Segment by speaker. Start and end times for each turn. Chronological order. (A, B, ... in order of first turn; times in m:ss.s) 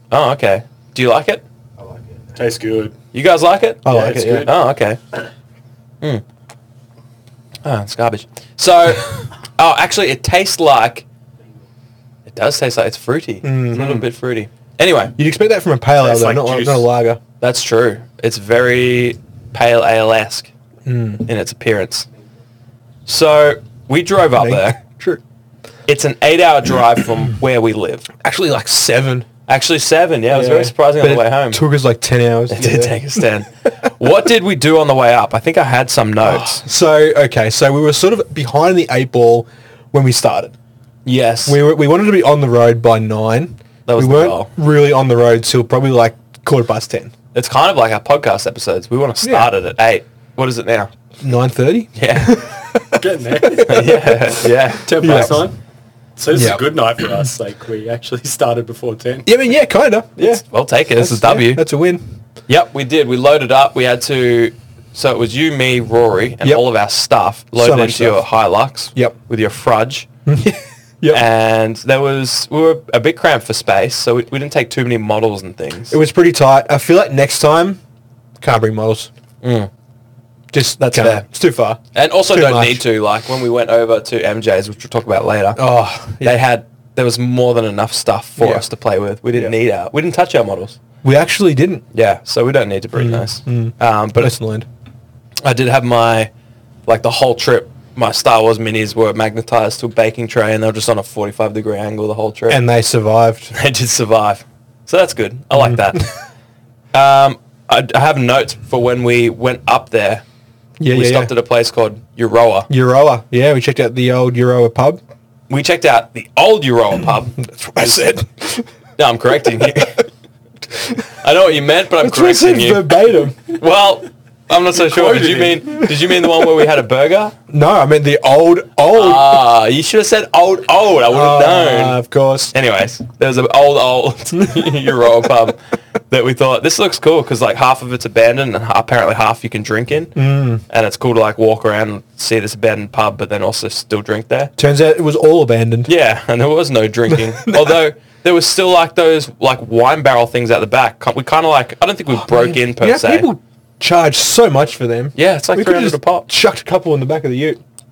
0:00.1-0:01.4 A
0:02.4-0:02.9 B
0:03.1-0:05.0 A
0:03.8-0:04.5 C
0:03.9-0:04.5 B
0:07.6-0:11.0 A
0:12.3-0:15.1 A
0:13.4-0:14.0 C
0:15.2-0:17.2 C
0:16.0-0:16.9 B
0:17.4-0:20.5 A
0:20.9-0:21.3 C
0:21.3-0:22.1 A
0:23.1-0:24.8 A
0:24.4-0:25.2 C
0:25.9-0:28.1 A
0:28.2-0:29.3 C
0:29.5-0:31.6 A
0:30.3-0:33.2 C
0:32.5-0:36.6 A
0:36.2-0:40.5 C
0:41.0-0:41.6 A
0:41.5-0:47.1 C
0:43.9-0:44.5 A
0:47.3-0:50.9 A
0:49.2-0:49.5 C
0:51.2-0:54.4 C
0:52.0-0:52.4 A
0:53.0-0:55.6 B
0:53.6-0:55.3 A
0:55.0-0:55.4 C
0:56.2-0:59.3 B
0:56.3-0:56.6 C
0:59.2-1:00.4 C
1:00.2-1:01.6 A
1:00.9-1:02.0 C
1:02.5-1:10.1 A
1:07.6-1:08.3 C
1:10.3-1:11.2 C
1:11.1-1:16.0 A
1:15.9-1:17.8 C
1:18.4-1:19.1 C
1:19.4-1:19.7 A
1:20.5-1:22.8 C
1:20.8-1:21.3 A
1:21.9-1:25.6 A
1:25.6-1:26.4 C
1:26.2-1:30.8 A
1:28.4-1:28.6 C
1:31.0-1:31.8 C
1:31.9-1:34.3 A
1:33.0-1:34.7 C
1:35.4-1:36.3 A
1:36.9-1:42.6 A
1:42.5-1:43.5 C
1:43.5-1:46.1 A
1:45.6-1:45.8 C
1:46.9-1:50.2 A
1:50.8-1:51.3 C
1:50.9-1:52.7 A
1:52.7-1:55.0 C
1:55.5-1:58.0 A
1:57.4-1:58.7 C
1:59.0-2:00.1 A
2:01.2-2:02.9 A
2:02.0-2:03.6 C
2:03.5-2:07.4 A
2:04.8-2:06.0 C
2:07.5-2:09.4 C
2:08.9-2:12.0 A
2:11.1-2:12.5 C
2:12.5-2:15.6 A
2:16.1-2:20.2 A
2:20.2-2:20.6 C
2:20.7-2:24.5 A
2:24.6-2:25.9 C
2:25.9-2:33.3 A
2:27.1-2:27.8 C
2:32.2-2:37.6 C
2:35.2-2:36.3 A